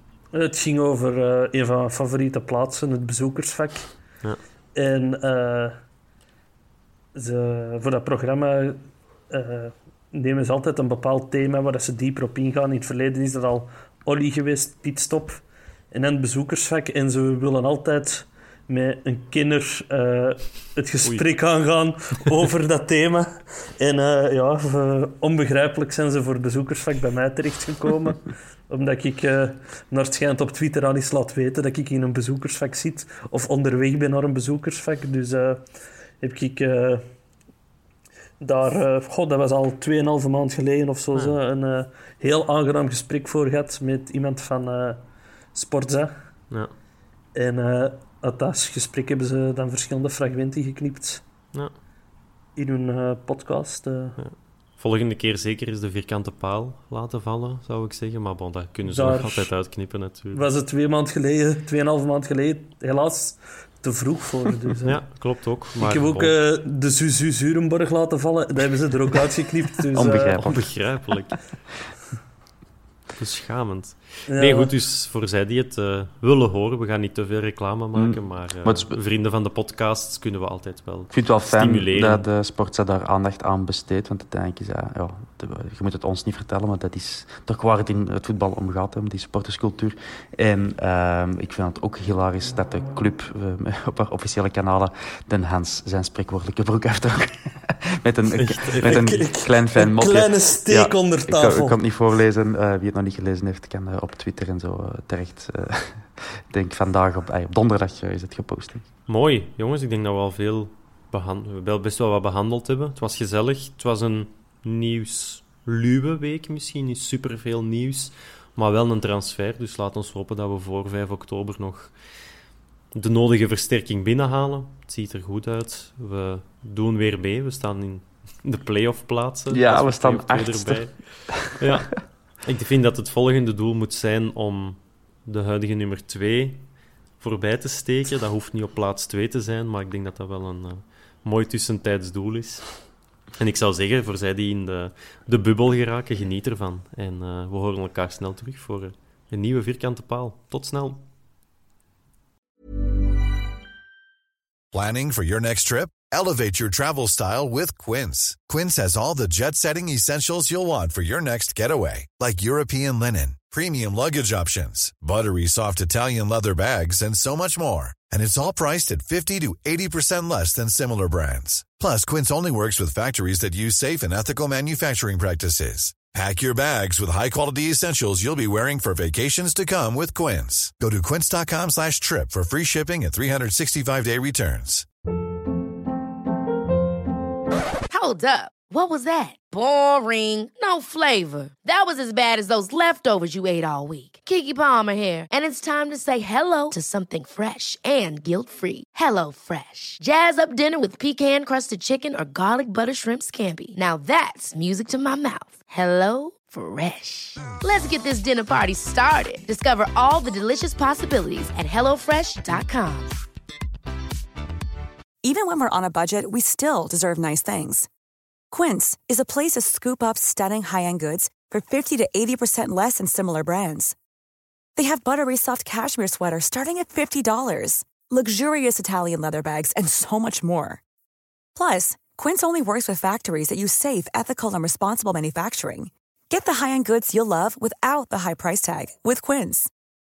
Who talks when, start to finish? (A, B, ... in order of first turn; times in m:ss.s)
0:00.3-0:03.9 A
0:04.7-0:05.8 A
0:07.1-0:35.7 A
0:36.2-0:37.0 A
0:38.4-0:46.2 A
0:47.4-0:51.2 A
0:52.6-0:54.2 A
0:54.2-1:00.5 B
0:58.8-0:59.5 A
1:00.3-1:05.1 A
1:04.8-1:06.3 B
1:05.8-1:10.4 A
1:09.9-1:10.7 C
1:10.4-1:11.5 B
1:13.2-1:22.3 B
1:14.3-1:14.7 A
1:18.0-1:19.0 C
1:21.1-1:48.9 C
1:38.4-1:39.2 B
1:38.8-1:41.8 A
1:49.1-2:02.0 B
2:02.9-2:16.7 B
2:09.5-2:11.8 C
2:17.2-2:22.7 B
2:23.4-2:31.0 B
2:34.7-3:04.9 D
3:07.9-3:33.2 E
3:35.2-3:37.9 F
3:38.5-3:44.0 F
3:44.8-3:50.8 F
3:51.6-3:59.7 F